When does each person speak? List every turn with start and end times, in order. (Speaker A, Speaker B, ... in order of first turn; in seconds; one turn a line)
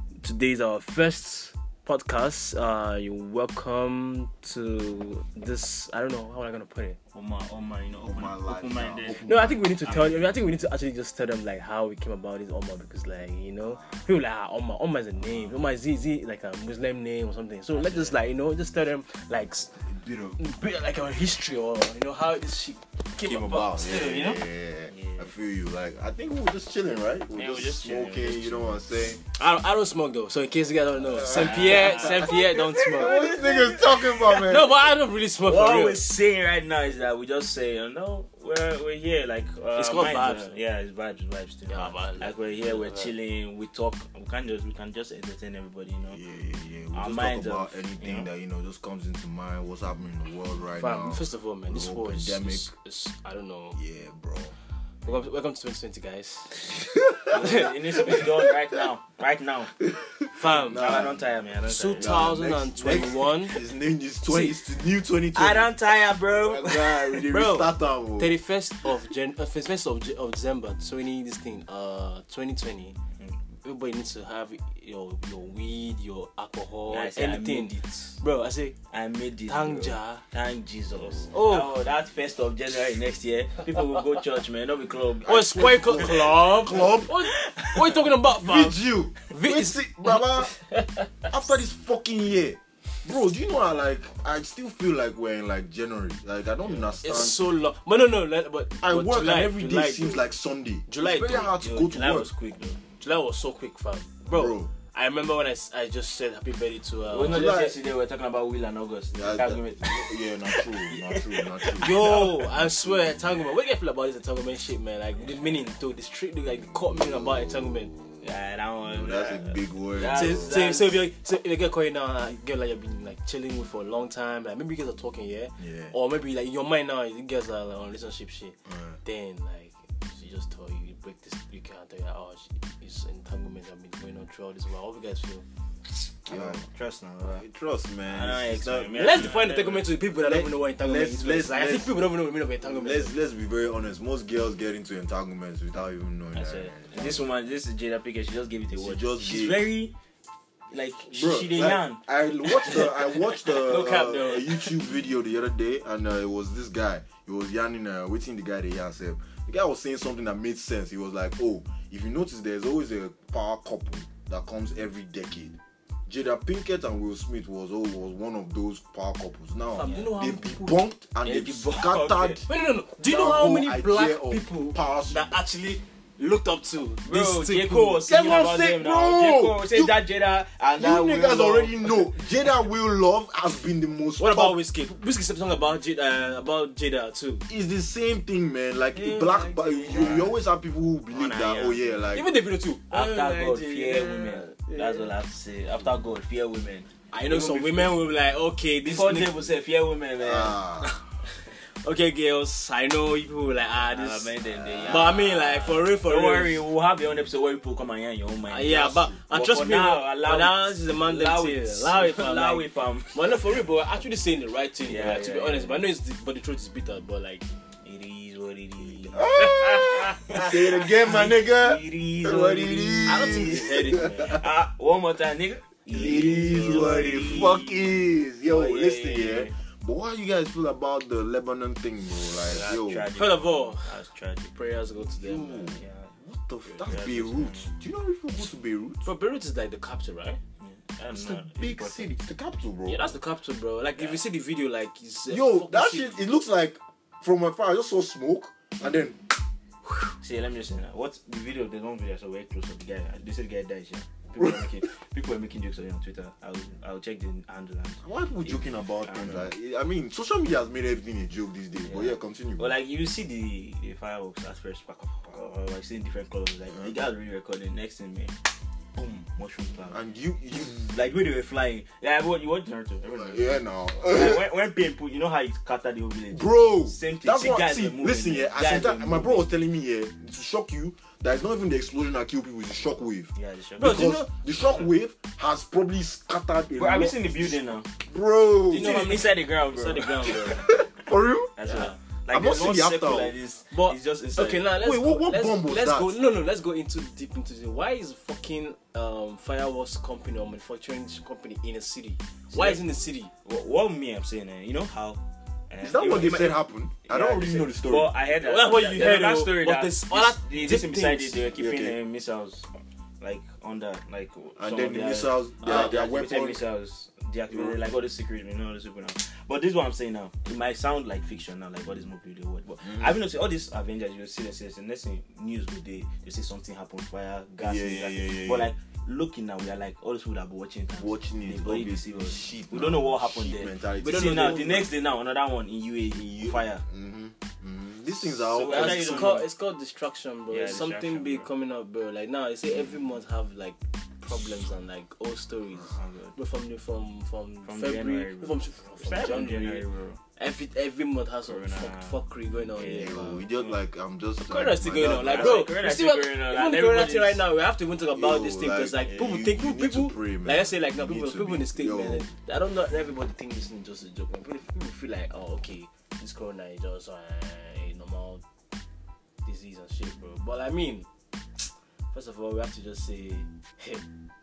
Speaker A: 0.2-7.0
Speaker B: 7.1-9.3
Speaker C: 8.0-10.3
Speaker A: 9.2-19.8
Speaker B: 9.8-10.2
Speaker B: 17.7-18.2
Speaker C: 19.8-20.4
Speaker A: 20.4-24.3
Speaker C: 23.2-29.2
Speaker B: 23.3-25.3
Speaker B: 27.3-28.8
Speaker A: 29.3-33.2
Speaker C: 31.1-34.7
Speaker B: 31.3-34.4
Speaker A: 34.4-36.0
Speaker B: 35.4-46.2
Speaker A: 39.8-40.5
Speaker A: 41.7-43.1
Speaker C: 46.1-52.7
Speaker B: 46.9-48.3
Speaker A: 50.8-53.8
Speaker C: 53.8-54.5
Speaker A: 55.0-58.2
Speaker B: 57.2-59.8
Speaker C: 59.9-61.3
Speaker A: 60.4-61.1
Speaker B: 60.7-62.4
Speaker A: 61.6-63.6
Speaker C: 62.0-65.8
Speaker A: 64.2-64.6
Speaker B: 65.3-67.7
Speaker C: 66.3-68.3
Speaker A: 68.2-73.0
Speaker A: 73.6-78.8
Speaker B: 76.9-78.2
Speaker B: 78.9-86.3
Speaker A: 79.5-80.2
Speaker A: 81.3-81.8
Speaker C: 85.3-87.2
Speaker A: 85.3-90.3
Speaker B: 87.1-88.0
Speaker C: 88.3-90.6
Speaker C: 91.3-97.4
Speaker B: 96.6-97.0
Speaker A: 97.0-100.3
Speaker C: 98.8-102.3
Speaker A: 100.9-101.5
Speaker B: 101.6-102.8
Speaker A: 103.0-107.5
Speaker C: 104.3-104.7
Speaker B: 107.1-112.4
Speaker C: 107.2-107.8
Speaker C: 109.1-113.0
Speaker A: 111.8-117.9
Speaker B: 118.2-121.0
Speaker C: 118.8-120.6
Speaker A: 120.1-135.4
Speaker C: 125.6-125.9
Speaker B: 136.2-137.4
Speaker C: 136.3-136.7
Speaker C: 137.3-139.3
Speaker B: 138.1-139.9
Speaker A: 139.0-143.1
Speaker C: 140.2-141.9
Speaker C: 142.6-147.3
Speaker B: 146.3-149.9
Speaker C: 148.8-149.7
Speaker B: 150.7-154.4
Speaker C: 151.1-165.6
Speaker A: 153.7-154.7
Speaker C: 166.1-172.4
Speaker A: 169.7-170.8
Speaker B: 169.8-170.1
Speaker B: 171.2-172.4
Speaker A: 172.5-178.0
Speaker C: 173.0-175.3
Speaker B: 177.1-182.1
Speaker C: 178.1-180.0
Speaker C: 180.8-184.6
Speaker A: 184.2-187.5
Speaker C: 187.5-192.3
Speaker A: 188.9-190.3
Speaker B: 189.9-190.3
Speaker B: 191.1-192.1
Speaker A: 192.1-195.1
Speaker B: 192.9-197.9
Speaker A: 197.1-199.4
Speaker B: 198.8-201.0
Speaker C: 200.2-200.9
Speaker A: 201.5-206.6
Speaker B: 203.9-213.2
Speaker A: 208.5-217.5
Speaker B: 214.8-215.8
Speaker B: 217.8-227.9
Speaker C: 219.1-224.4
Speaker A: 223.1-224.4
Speaker C: 225.9-233.1
Speaker B: 228.5-229.6
Speaker B: 232.4-234.6
Speaker A: 233.2-234.0
Speaker A: 234.6-235.7
Speaker C: 235.0-239.1
Speaker B: 235.7-236.2
Speaker B: 236.8-237.7
Speaker A: 239.1-240.4
Speaker B: 240.6-242.1
Speaker C: 241.1-243.2
Speaker A: 242.9-246.2
Speaker B: 243.9-244.2
Speaker C: 245.3-249.2
Speaker B: 250.2-259.5
Speaker C: 258.0-262.8
Speaker B: 261.9-268.4
Speaker B: 269.0-270.0
Speaker C: 269.9-270.9
Speaker B: 270.7-279.5
Speaker C: 273.2-274.4
Speaker C: 276.3-288.9
Speaker B: 283.4-284.0
Speaker A: 283.8-284.3
Speaker B: 286.8-287.9
Speaker A: 288.7-290.9
Speaker B: 288.7-290.6
Speaker C: 290.7-293.4
Speaker B: 291.6-294.7
Speaker A: 291.7-291.9
Speaker A: 293.7-303.3
Speaker C: 294.7-296.2
Speaker B: 302.5-302.8
Speaker B: 303.4-312.7
Speaker C: 305.8-308.1
Speaker A: 308.4-311.4
Speaker C: 311.6-312.0
Speaker B: 313.2-336.8
Speaker C: 314.6-316.6
Speaker C: 317.5-317.8
Speaker C: 327.6-328.7
Speaker C: 331.0-334.9
Speaker A: 334.0-334.9
Speaker C: 336.1-339.4
Speaker B: 338.2-339.5
Speaker A: 338.7-349.9
Speaker B: 340.5-341.5
Speaker B: 345.8-346.4
Speaker B: 347.6-350.2
Speaker A: 350.4-353.4
Speaker B: 351.4-352.2
Speaker B: 352.7-353.8
Speaker C: 352.9-355.7
Speaker A: 354.4-368.4
Speaker B: 355.1-357.4
Speaker C: 358.1-362.3
Speaker B: 359.0-359.4
Speaker A: 369.4-371.1
Speaker A: 371.6-374.1